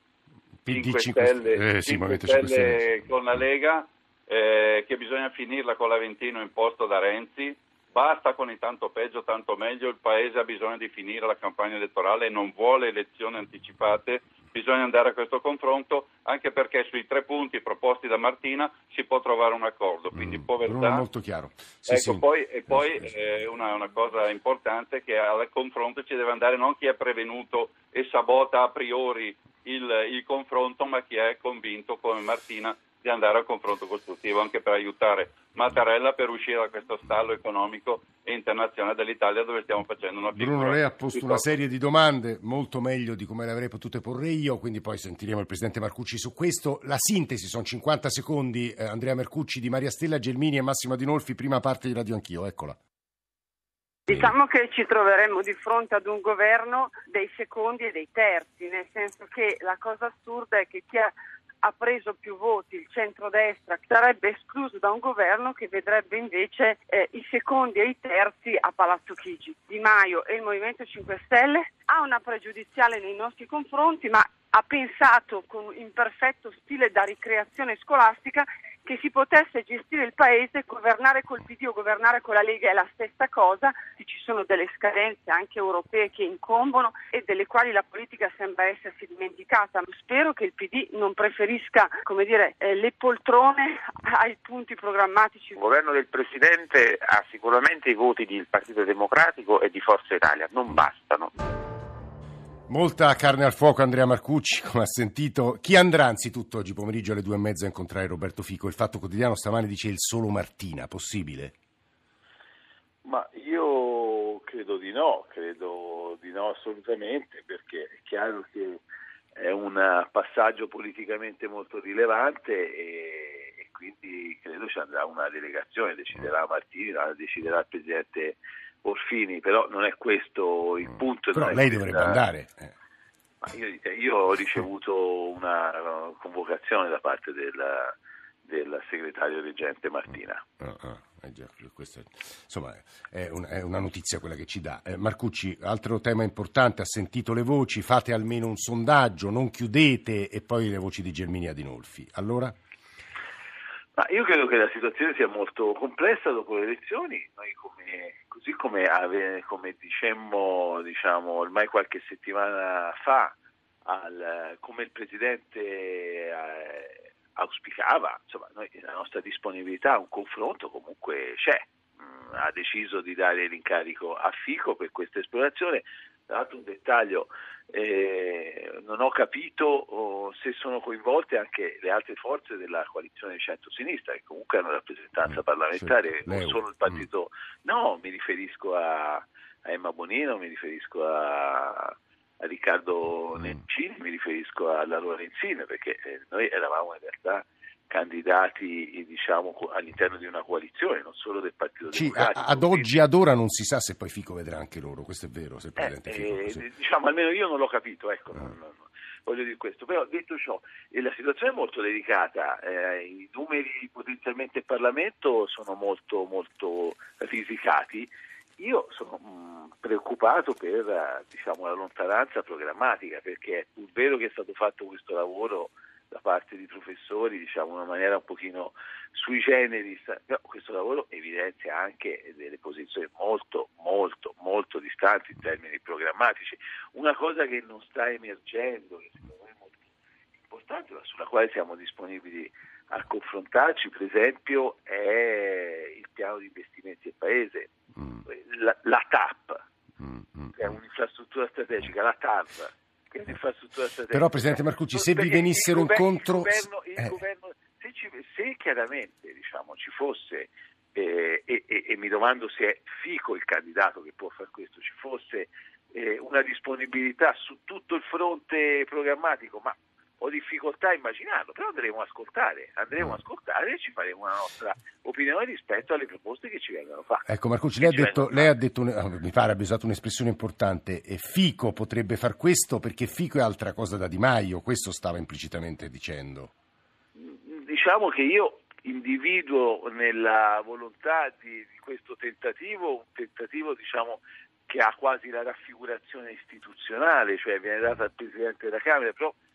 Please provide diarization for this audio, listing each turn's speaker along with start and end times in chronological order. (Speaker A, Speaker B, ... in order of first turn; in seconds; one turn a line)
Speaker A: 0.6-2.9
Speaker B: 0.7-21.0
Speaker A: 20.3-22.8
Speaker B: 21.9-41.5
Speaker A: 40.3-52.8
Speaker C: 54.1-95.5
Speaker D: 95.5-101.3
Speaker A: 102.7-111.5
Speaker E: 113.0-118.8
Speaker E: 119.3-132.2
Speaker A: 131.3-132.7
Speaker E: 133.4-137.9
Speaker E: 138.5-140.4
Speaker A: 140.6-152.6
Speaker E: 154.0-202.9
Speaker A: 185.8-187.0
Speaker A: 201.9-206.6
Speaker E: 205.8-239.8
Speaker E: 240.5-247.7
Speaker E: 248.2-249.6
Speaker A: 250.0-250.6
Speaker E: 250.6-277.3
Speaker A: 254.1-257.1
Speaker A: 277.3-286.5
Speaker E: 277.8-278.5
Speaker E: 287.1-299.3